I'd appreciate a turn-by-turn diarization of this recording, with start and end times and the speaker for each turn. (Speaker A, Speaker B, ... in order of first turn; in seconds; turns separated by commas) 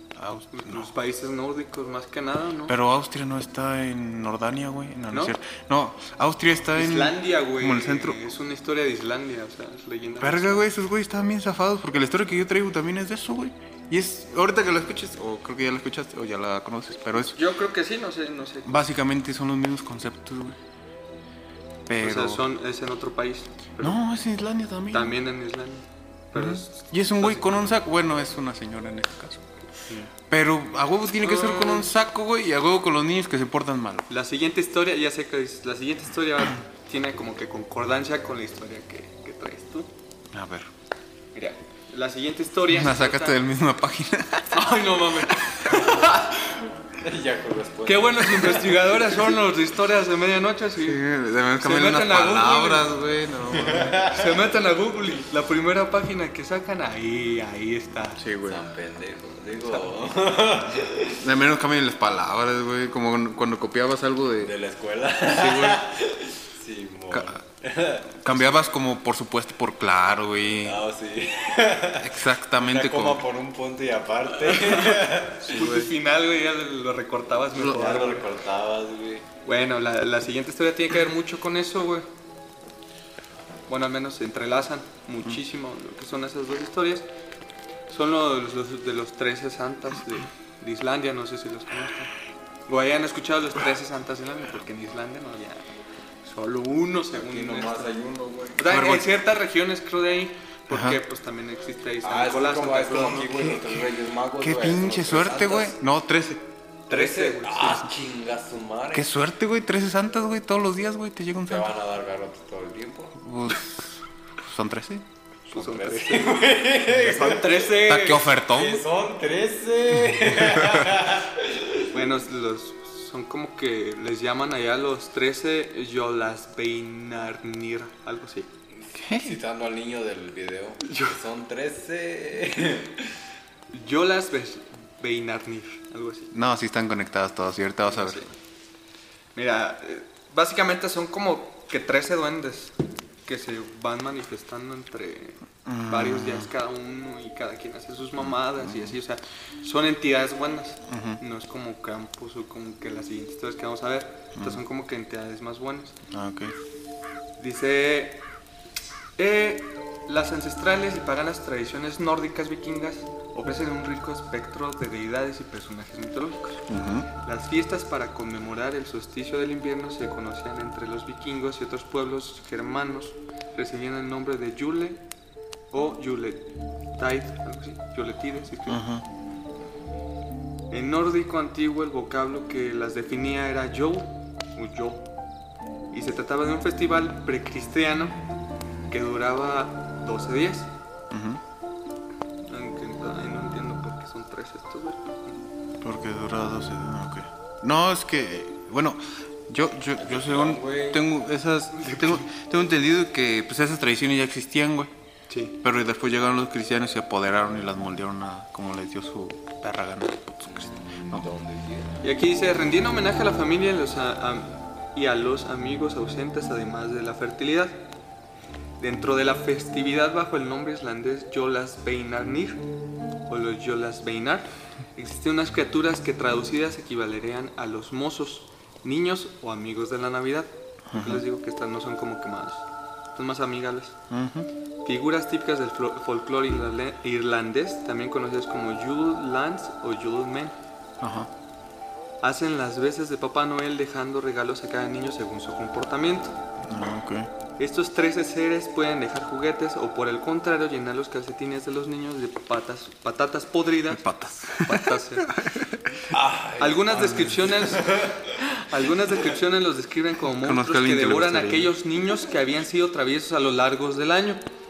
Speaker A: 0.1-0.9, Speaker B: 0.5-2.8, Speaker A: 2.7-8.2, Speaker B: 6.7-10.7, Speaker A: 10.2-17.4, Speaker B: 17.3-18.8, Speaker A: 18.6-20.6, Speaker A: 21.9-22.4, Speaker B: 22.0-24.0, Speaker A: 23.8-25.2, Speaker B: 24.9-27.5, Speaker A: 26.3-29.4, Speaker A: 30.3-34.1, Speaker B: 31.1-31.9, Speaker B: 34.1-39.9, Speaker A: 40.3-40.7, Speaker B: 41.3-43.4, Speaker A: 42.7-44.7, Speaker B: 44.5-46.6, Speaker A: 45.5-45.8, Speaker C: 47.0-49.0, Speaker B: 47.8-51.0, Speaker A: 50.8-54.0, Speaker B: 51.6-52.9, Speaker C: 53.6-54.2, Speaker B: 54.0-58.2, Speaker A: 58.2-58.6, Speaker C: 58.4-61.2, Speaker A: 61.2-64.5, Speaker C: 64.4-68.6, Speaker A: 65.2-65.9, Speaker A: 67.1-67.4, Speaker A: 68.2-70.8, Speaker C: 70.6-75.8, Speaker A: 72.0-73.2, Speaker B: 74.7-78.3, Speaker A: 75.5-75.9, Speaker C: 77.6-79.2, Speaker B: 79.4-82.1, Speaker B: 83.7-87.0, Speaker B: 87.9-92.1, Speaker B: 92.7-98.0, Speaker C: 97.1-98.6, Speaker B: 98.5-103.5, Speaker A: 98.6-99.1, Speaker A: 100.7-101.0, Speaker C: 102.0-105.8, Speaker A: 103.5-103.8, Speaker A: 104.4-106.5, Speaker B: 106.9-107.9, Speaker C: 106.9-109.1, Speaker A: 108.9-111.7, Speaker C: 111.5-113.2, Speaker A: 113.2-115.0, Speaker C: 115.5-122.0, Speaker B: 115.5-118.4, Speaker A: 117.8-118.8, Speaker A: 120.6-120.9, Speaker B: 121.9-128.5, Speaker C: 128.8-133.1, Speaker A: 129.0-129.4, Speaker B: 130.8-131.2, Speaker B: 133.7-136.3, Speaker A: 136.3-138.2, Speaker B: 137.8-138.3, Speaker B: 139.3-155.9, Speaker A: 145.7-146.5, Speaker A: 148.2-148.9, Speaker A: 150.9-151.2, Speaker A: 154.3-154.6, Speaker A: 156.1-156.5, Speaker B: 157.4-158.2, Speaker B: 159.2-166.7, Speaker A: 166.7-167.1, Speaker B: 167.2-175.0, Speaker B: 175.7-178.8, Speaker A: 178.7-179.1, Speaker B: 180.7-185.1, Speaker B: 185.9-188.2, Speaker B: 188.9-190.7, Speaker A: 191.1-191.4, Speaker B: 192.5-195.4, Speaker A: 195.8-204.9, Speaker C: 200.0-201.0, Speaker B: 201.7-202.3, Speaker B: 205.3-205.6, Speaker A: 205.6-211.2, Speaker C: 211.1-212.0, Speaker B: 212.0-217.8, Speaker B: 218.8-222.6, Speaker B: 223.3-233.9, Speaker A: 230.9-231.2, Speaker A: 234.1-234.5, Speaker B: 234.8-240.6, Speaker A: 241.0-241.3, Speaker B: 242.2-246.3, Speaker A: 246.6-247.3, Speaker B: 247.6-255.3, Speaker A: 253.9-255.9, Speaker C: 256.1-258.2, Speaker B: 256.6-258.0, Speaker A: 257.0-257.3, Speaker B: 258.6-264.4, Speaker A: 260.4-261.7